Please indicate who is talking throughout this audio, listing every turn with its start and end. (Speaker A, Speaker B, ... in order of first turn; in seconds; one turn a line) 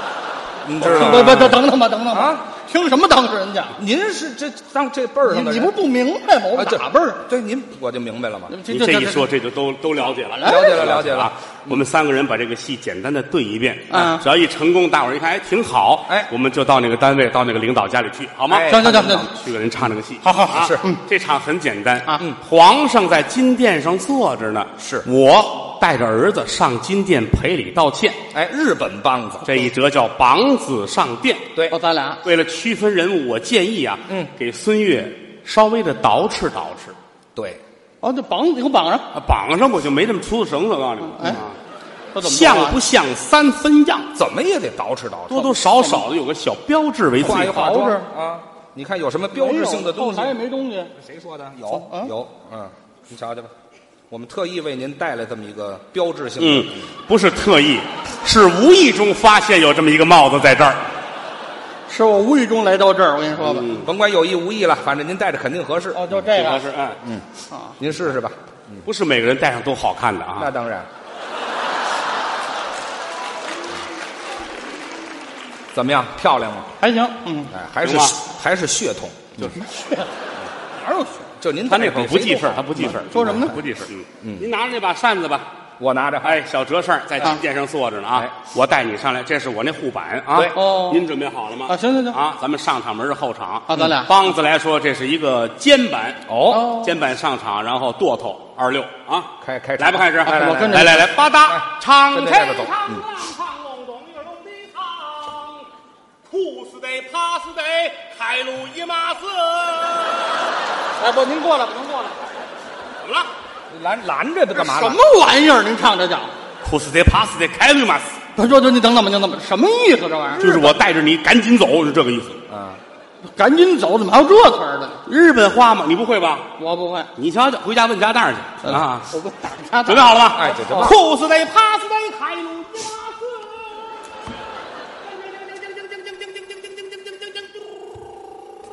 Speaker A: 0.6-1.6
Speaker B: 0.8-3.8
Speaker C: 0.9-1.5
Speaker A: 2.1-2.4
Speaker A: 3.8-5.8
Speaker B: 5.2-7.2
Speaker A: 6.5-8.6
Speaker B: 8.5-9.3
Speaker C: 8.7-28.2
Speaker B: 10.4-10.8
Speaker A: 10.4-11.8
Speaker B: 13.9-14.2
Speaker A: 18.5-19.3
Speaker B: 18.7-19.3
Speaker B: 20.2-21.0
Speaker A: 20.5-20.8
Speaker A: 24.8-25.1
Speaker A: 28.3-29.7
Speaker C: 29.4-31.5
Speaker B: 31.7-32.2
Speaker C: 32.2-37.0
Speaker A: 37.3-37.6
Speaker B: 38.0-39.1
Speaker C: 39.1-41.6
Speaker B: 41.0-41.4
Speaker B: 42.1-42.8
Speaker C: 42.2-44.1
Speaker A: 44.1-45.6
Speaker C: 45.3-47.8
Speaker A: 47.2-50.4
Speaker B: 47.3-48.1
Speaker B: 49.3-50.9
Speaker A: 50.9-53.5
Speaker B: 51.7-52.1
Speaker A: 54.1-56.9
Speaker C: 56.4-60.9
Speaker B: 61.9-63.7
Speaker C: 63.4-63.9
Speaker A: 63.7-66.2
Speaker B: 65.9-66.7
Speaker C: 66.3-67.0
Speaker B: 67.5-67.8
Speaker A: 67.8-68.8
Speaker C: 68.8-70.5
Speaker A: 70.4-70.9
Speaker A: 75.7-76.7
Speaker B: 76.8-77.5
Speaker A: 77.5-79.5
Speaker C: 77.8-78.2
Speaker B: 79.5-80.1
Speaker B: 80.8-81.3
Speaker A: 81.4-82.8
Speaker C: 81.7-85.5
Speaker B: 82.8-83.6
Speaker A: 84.2-84.5
Speaker A: 85.8-86.4
Speaker C: 86.2-105.7
Speaker B: 90.5-91.1
Speaker B: 91.7-92.2
Speaker B: 93.7-94.1
Speaker A: 96.3-96.8
Speaker B: 96.5-96.9
Speaker A: 99.4-103.0
Speaker B: 100.2-101.1
Speaker C: 106.3-110.4
Speaker B: 111.0-112.2
Speaker C: 113.0-113.3
Speaker A: 113.7-115.0
Speaker B: 114.5-116.3
Speaker C: 116.6-118.2
Speaker B: 118.3-120.6
Speaker C: 120.4-122.4
Speaker A: 122.5-122.8
Speaker B: 123.2-125.0
Speaker C: 125.0-126.5
Speaker B: 126.6-127.1
Speaker C: 127.2-129.1
Speaker B: 128.6-130.9
Speaker C: 129.8-133.7
Speaker A: 130.3-131.0